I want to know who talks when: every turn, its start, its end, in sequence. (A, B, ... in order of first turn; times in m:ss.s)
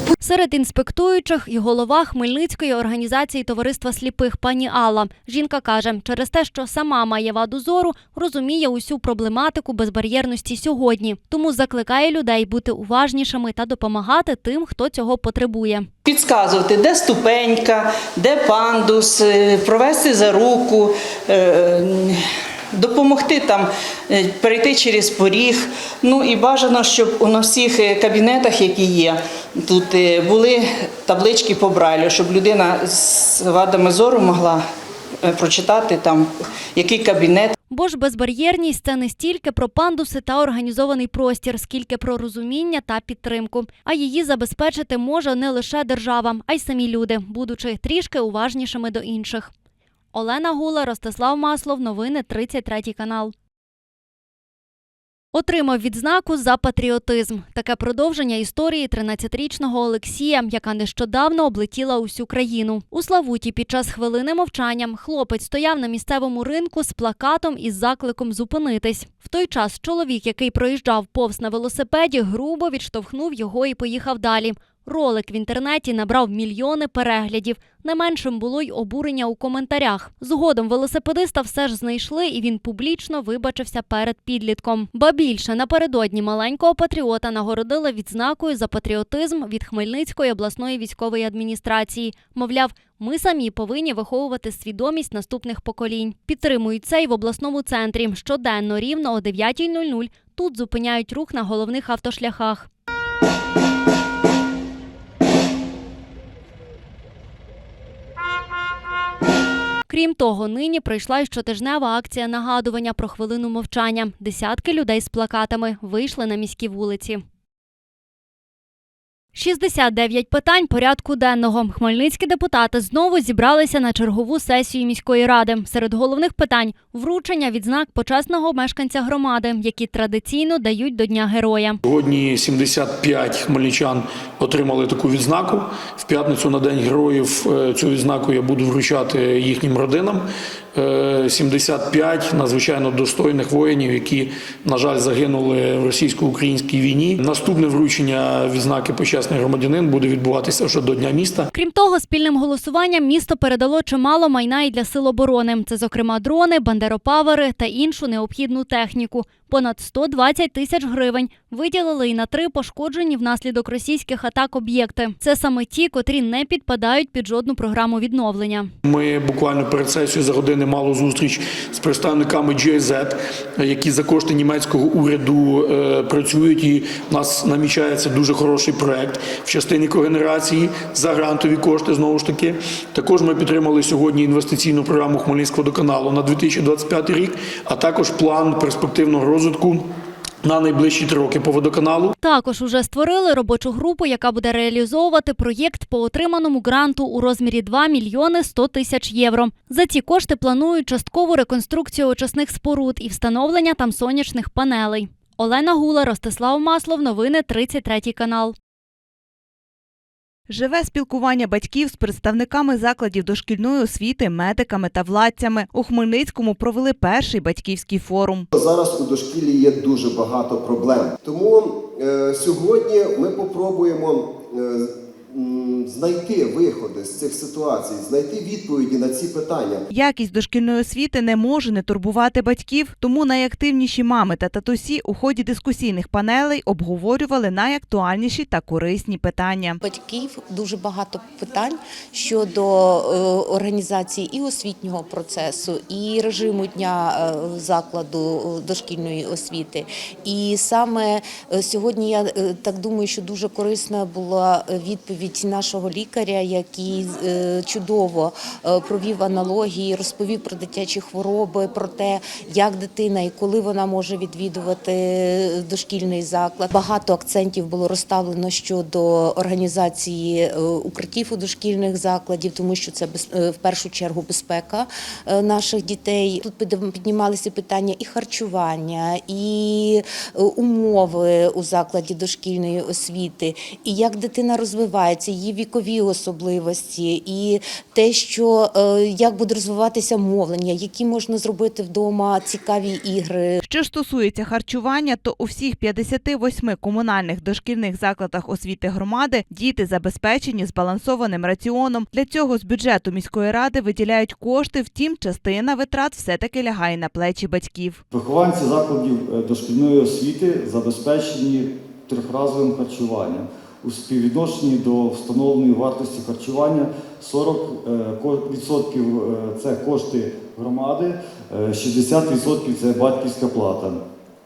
0:00.2-0:15.9 A
0:16.0-0:22.2 B
0:22.7-0:34.6 B
0:35.2-0:37.5 B
0:37.7-0:49.5 A
0:50.1-0:53.3 A
0:55.3-1:42.7 A
1:49.9-1:57.2 A
1:59.3-2:11.8 A
2:11.8-2:31.5 C
2:31.5-2:48.7 A
2:48.8-3:09.8 C
3:10.4-3:12.1 C
3:12.2-3:28.5 A
3:30.5-3:38.5 D
3:38.5-3:49.8 E
3:49.9-3:59.8 D
3:59.8-4:53.6 F
4:53.6-5:08.0 D
5:08.1-5:24.0 G